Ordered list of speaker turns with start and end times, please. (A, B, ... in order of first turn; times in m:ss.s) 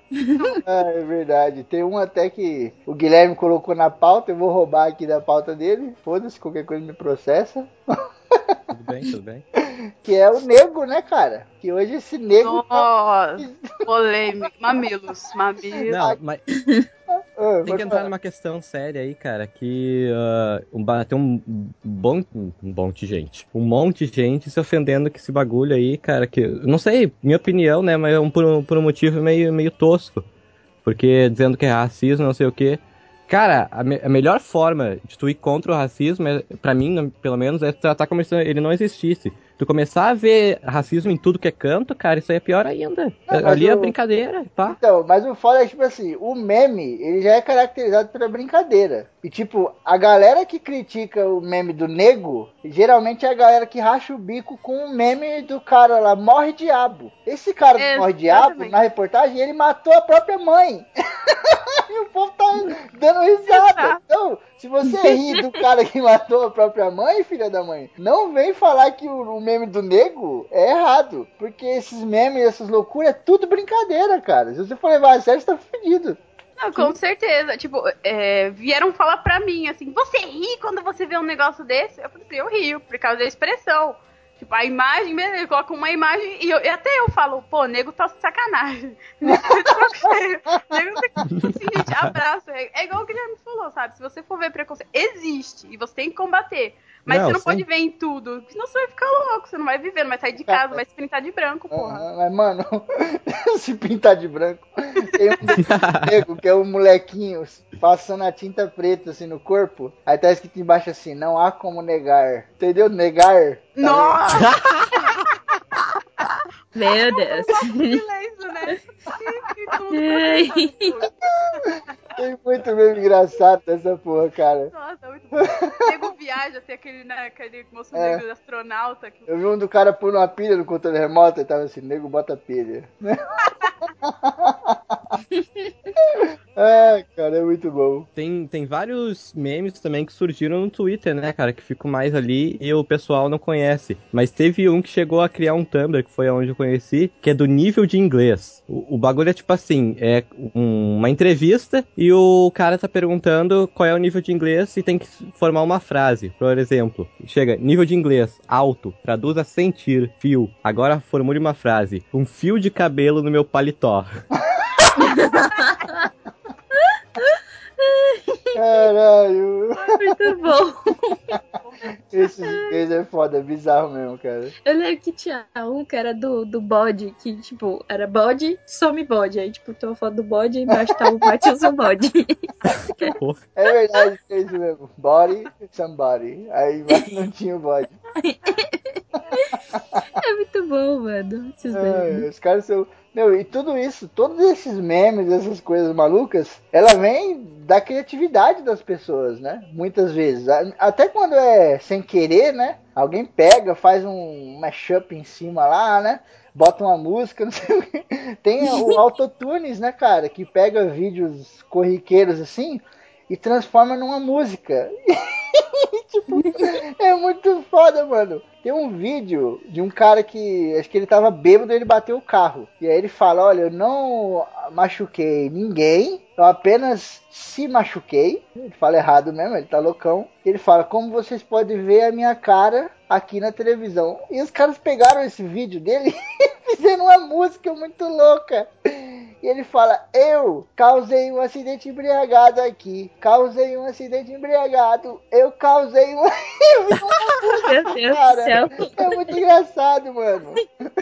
0:00.4-0:00.7 A
0:00.6-0:08.6 B
0:08.7-0:09.4 C
0:09.6-0:13.8 B
0:12.4-0:15.9 A
0:15.9-0:16.4 C
0:15.9-0:16.2 B
0:17.1-0:18.1 B
0:17.6-0:30.2 C
0:30.8-0:44.8 C
0:43.3-0:43.9 B
0:44.6-1:16.2 B
0:57.8-0:58.8 A
1:03.5-1:04.0 A
1:05.1-1:05.6 A
1:16.6-1:42.0 A
1:29.2-1:30.1 B
1:31.3-1:32.1 C
1:37.1-1:37.6 C
1:40.4-1:40.8 B
1:41.7-1:54.4 B
1:45.6-1:46.1 C
1:53.8-1:55.1 A
1:54.3-1:54.7 C
1:56.8-1:58.0 D
1:57.1-2:01.7 A
1:59.9-2:00.8 D
2:02.2-2:04.7 B
2:04.7-2:09.3 A
2:05.4-2:06.0 B
2:07.9-2:08.2 B
2:09.3-2:13.2 B
2:14.0-2:15.0 B
2:16.2-2:18.1 B
2:18.2-2:44.1 C
2:45.0-2:46.0 D
2:46.9-2:48.6 D
2:48.5-2:50.0 B
2:49.7-2:50.5 A
2:50.0-2:51.2 D
2:51.3-2:52.3 A
2:52.1-2:54.5 B
2:54.6-3:03.1 D
3:03.6-3:07.9 B
3:08.2-3:09.5 D
3:10.2-3:12.2 D
3:11.7-4:10.6 B
4:07.5-4:09.1 D